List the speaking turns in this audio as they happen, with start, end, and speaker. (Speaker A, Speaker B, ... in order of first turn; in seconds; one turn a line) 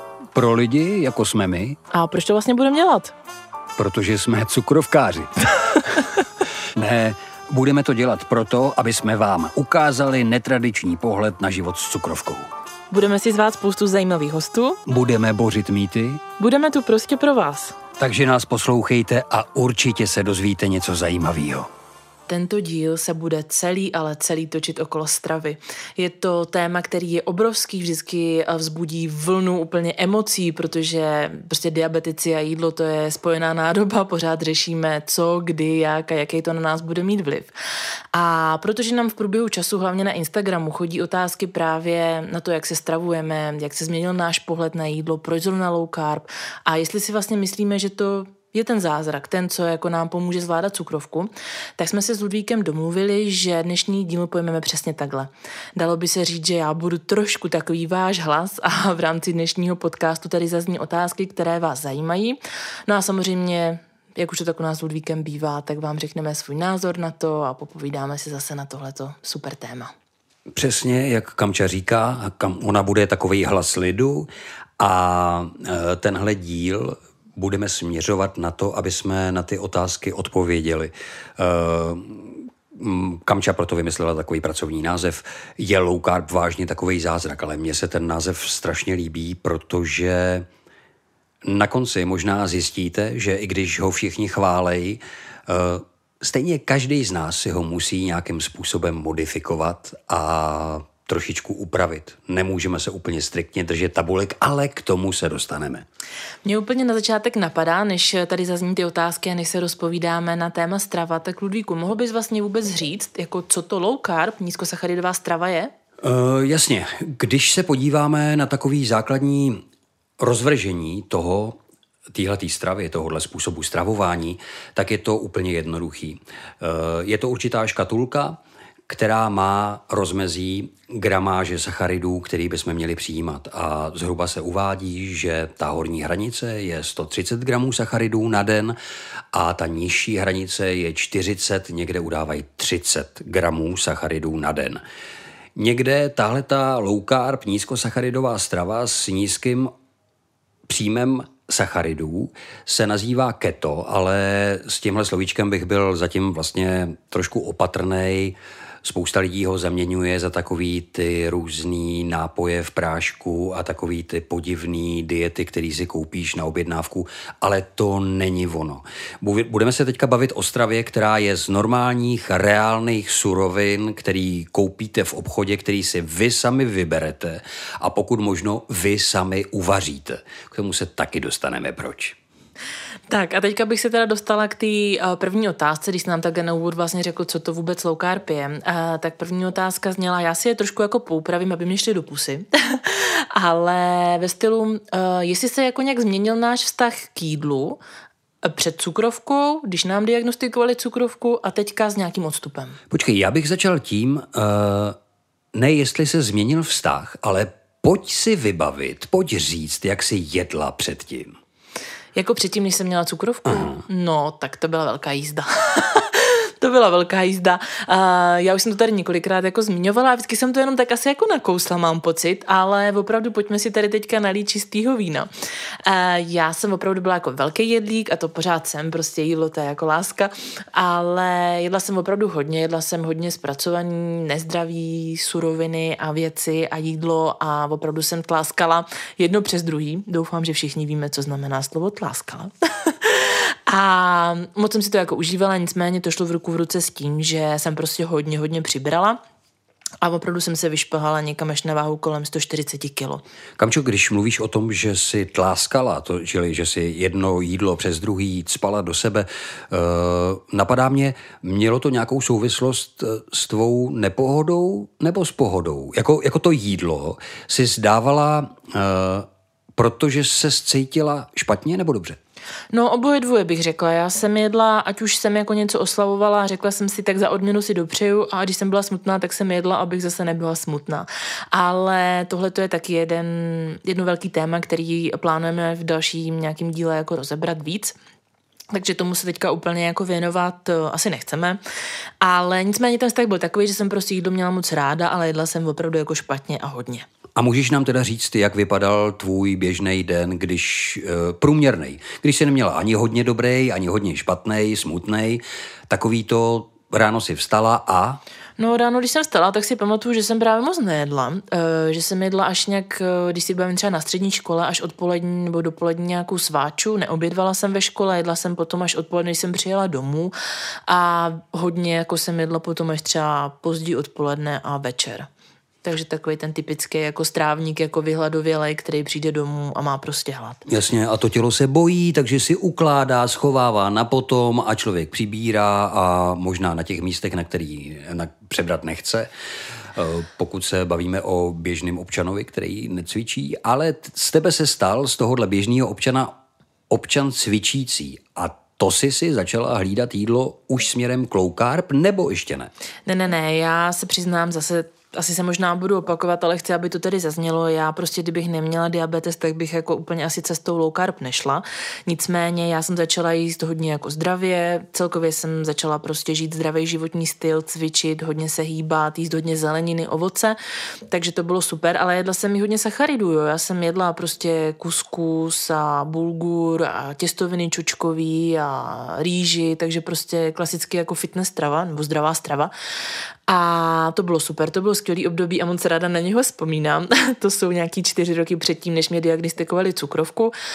Speaker A: 0.3-1.8
Speaker B: 1.9-3.1
Speaker A: 3.8-6.2
Speaker A: 6.7-12.5
Speaker B: 12.9-14.8
Speaker A: 14.8-16.2
Speaker B: 16.4-17.8
Speaker A: 18.0-21.7
Speaker B: 22.3-37.5
Speaker B: 38.1-69.9
Speaker A: 70.5-90.5
Speaker A: 91.4-105.8
Speaker B: 106.4-115.7
Speaker A: 116.0-119.6
Speaker A: 120.2-121.6
Speaker A: 122.1-138.8
Speaker A: 139.3-144.8
Speaker A: 145.6-149.7
Speaker A: 150.7-182.2
Speaker B: 183.1-197.8
Speaker B: 198.4-202.8
Speaker A: 202.9-205.0
Speaker A: 205.5-211.3
Speaker B: 212.1-225.3
Speaker A: 213.5-213.8
Speaker B: 225.8-249.2
Speaker B: 250.0-253.2
Speaker A: 253.6-272.2
Speaker B: 272.7-287.9
Speaker B: 288.7-291.6
Speaker B: 292.2-297.1
Speaker A: 297.4-308.2
Speaker B: 308.6-320.3
Speaker B: 320.9-325.3
Speaker B: 325.8-330.6
Speaker A: 330.6-339.3
Speaker A: 339.9-346.3
Speaker A: 346.9-352.7
Speaker B: 353.1-370.6
Speaker B: 371.1-382.7
Speaker B: 383.5-390.5